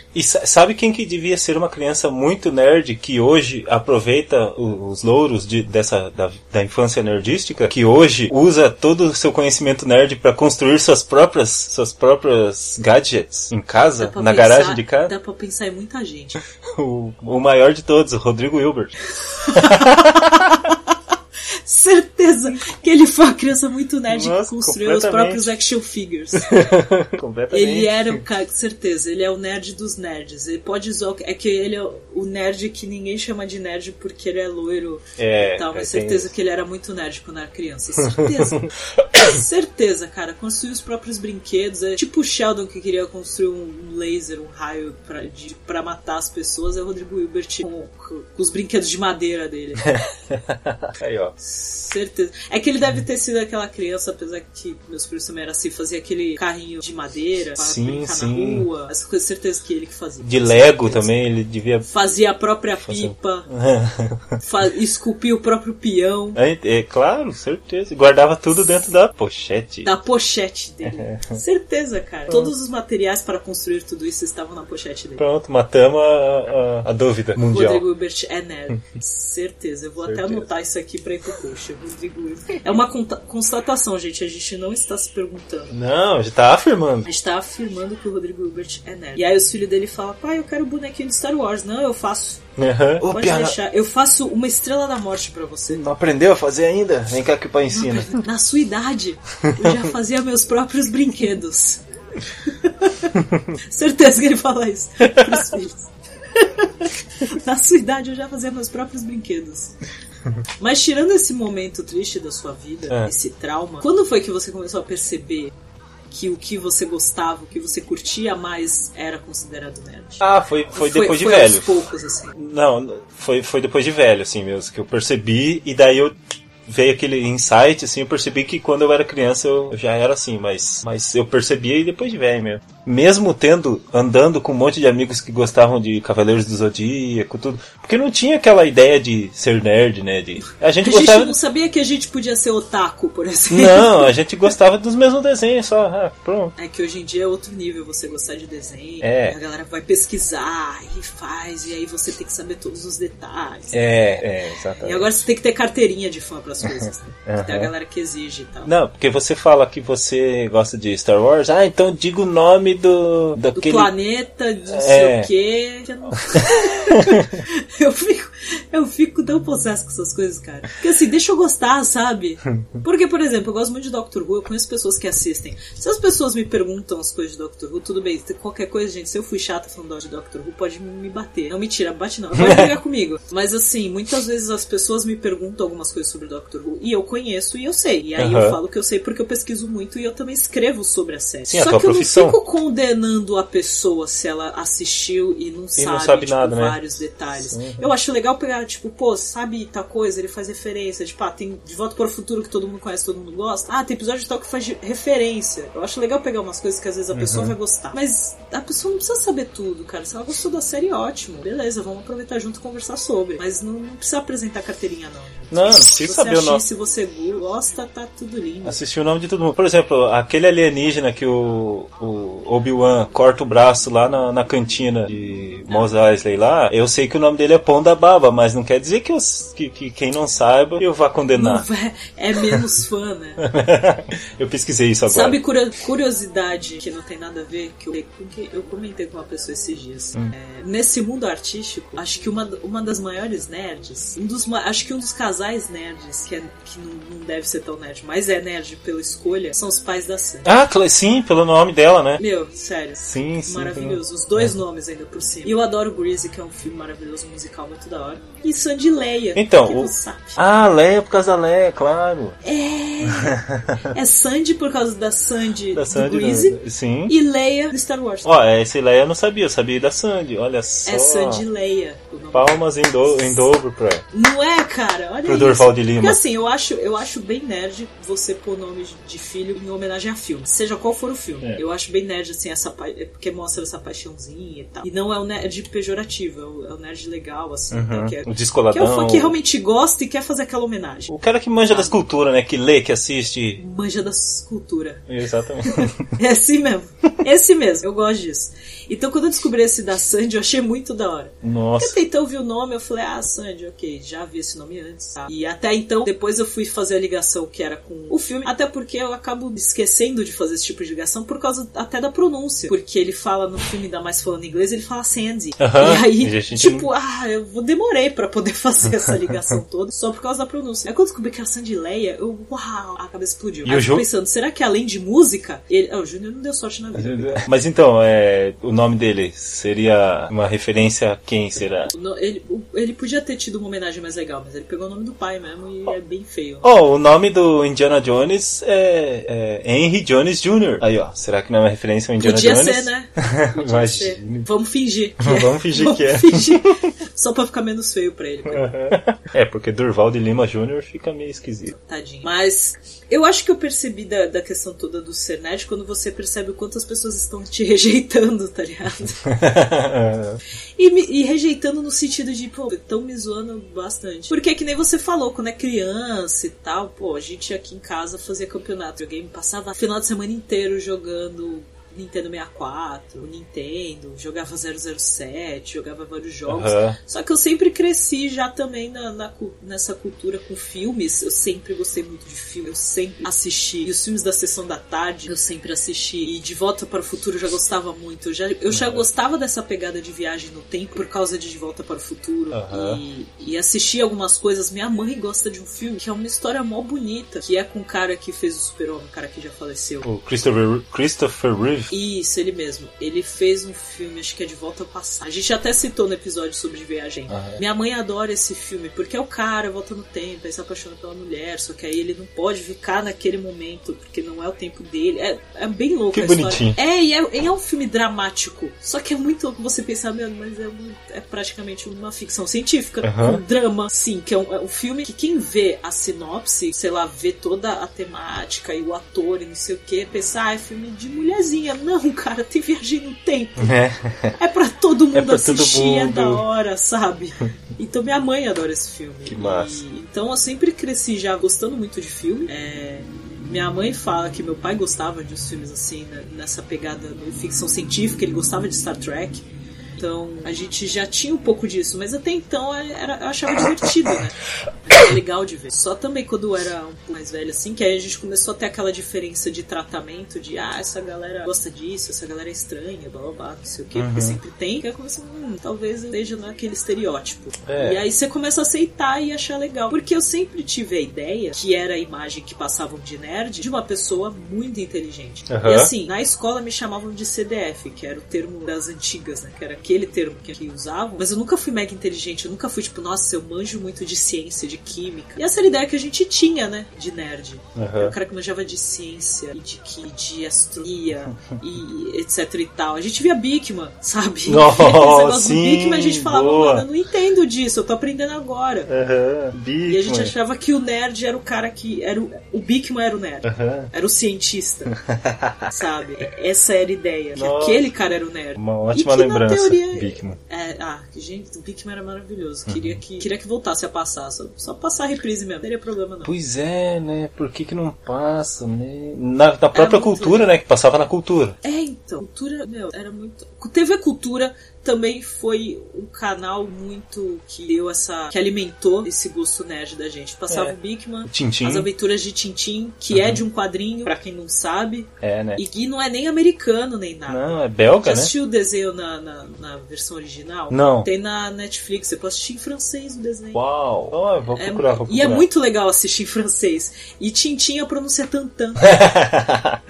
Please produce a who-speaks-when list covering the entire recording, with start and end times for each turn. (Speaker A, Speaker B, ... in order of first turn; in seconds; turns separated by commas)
Speaker A: 0.1-15.1, Speaker B: 14.0-16.4, Speaker A: 16.6-18.9, Speaker B: 19.2-21.0, Speaker A: 19.5-20.6, Speaker B: 21.6-26.7, Speaker A: 24.1-25.6, Speaker A: 26.4-28.2, Speaker B: 27.5-50.0, Speaker A: 35.2-36.3, Speaker A: 38.1-38.7, Speaker A: 49.8-51.4, Speaker B: 51.4-61.1, Speaker A: 57.6-58.7, Speaker A: 60.2-61.9, Speaker B: 61.9-63.5, Speaker A: 62.9-64.4, Speaker B: 64.4-66.4, Speaker A: 66.4-69.9, Speaker B: 69.8-75.2, Speaker A: 70.8-71.4, Speaker A: 75.2-77.9, Speaker B: 77.4-85.8, Speaker A: 80.0-80.5, Speaker A: 85.7-87.1, Speaker B: 87.0-92.5, Speaker A: 92.6-93.6, Speaker B: 93.0-95.8, Speaker A: 95.7-98.2, Speaker B: 97.7-101.8, Speaker A: 99.5-99.8, Speaker B: 102.4-109.8, Speaker A: 105.0-105.5, Speaker B: 110.6-115.5, Speaker B: 116.1-122.4, Speaker A: 120.2-141.4, Speaker B: 140.8-144.2, Speaker A: 143.5-146.5, Speaker B: 146.6-153.9, Speaker A: 149.0-149.4, Speaker A: 153.7-155.2, Speaker B: 154.8-158.7, Speaker A: 156.8-157.7, Speaker A: 158.7-163.9, Speaker B: 163.5-218.8, Speaker A: 164.7-165.3, Speaker A: 166.3-167.4, Speaker A: 182.3-182.8, Speaker A: 188.2-188.6, Speaker A: 191.5-192.4, Speaker A: 195.8-196.8, Speaker A: 197.5-197.9, Speaker A: 207.1-207.6, Speaker A: 215.5-216.7, Speaker A: 218.6-231.7, Speaker B: 231.3-233.4, Speaker A: 233.4-235.4, Speaker B: 235.1-250.5, Speaker A: 250.4-252.2, Speaker B: 252.2-260.4, Speaker A: 253.0-254.5, Speaker A: 259.4-262.4, Speaker B: 262.4-268.3, Speaker A: 263.1-263.9, Speaker A: 265.7-267.1, Speaker A: 268.2-271.4, Speaker B: 270.9-272.6, Speaker A: 272.3-274.0, Speaker B: 274.1-291.1, Speaker A: 275.2-276.2, Speaker A: 287.7-289.4, Speaker A: 291.1-293.6, Speaker B: 291.7-292.0, Speaker B: 293.6-295.1, Speaker A: 295.1-296.1, Speaker B: 295.6-327.4, Speaker A: 301.4-302.0, Speaker A: 315.6-316.9, Speaker A: 323.7-324.1, Speaker A: 327.0-331.9, Speaker B: 331.9-336.7, Speaker A: 336.6-344.5, Speaker B: 342.2-348.8, Speaker A: 345.2-346.9, Speaker A: 348.5-351.7, Speaker B: 351.7-359.3, Speaker A: 359.2-360.4, Speaker B: 360.8-400.1, Speaker A: 376.5-377.0, Speaker A: 388.7-389.1, Speaker A: 392.5-393.0, Speaker A: 400.0-401.9, Speaker B: 401.9-433.8, Speaker A: 407.3-407.6, Speaker A: 416.1-416.8, Speaker A: 423.0-423.4, Speaker A: 433.6-434.4, Speaker B: 434.4-449.4, Speaker A: 435.1-436.4, Speaker A: 439.3-439.8, Speaker B: 450.0-498.9, Speaker A: 463.9-464.4, Speaker A: 467.7-468.0, Speaker A: 475.5-475.9, Speaker A: 487.8-488.2, Speaker A: 494.5-496.9, Speaker A: 498.9-500.3, Speaker B: 499.9-504.9, Speaker A: 503.4-503.9, Speaker A: 504.9-505.7, Speaker B: 505.7-516.3, Speaker A: 507.4-507.9, Speaker A: 508.6-510.4, Speaker A: 512.7-513.0, Speaker A: 516.2-521.6, Speaker B: 519.7-520.5, Speaker B: 521.6-543.6, Speaker A: 530.5-531.9, Speaker A: 533.1-533.4, Speaker A: 535.2-535.6, Speaker A: 537.3-538.3, Speaker A: 540.7-541.1, Speaker A: 543.5-545.5, Speaker B: 544.5-549.1, Speaker A: 548.8-549.8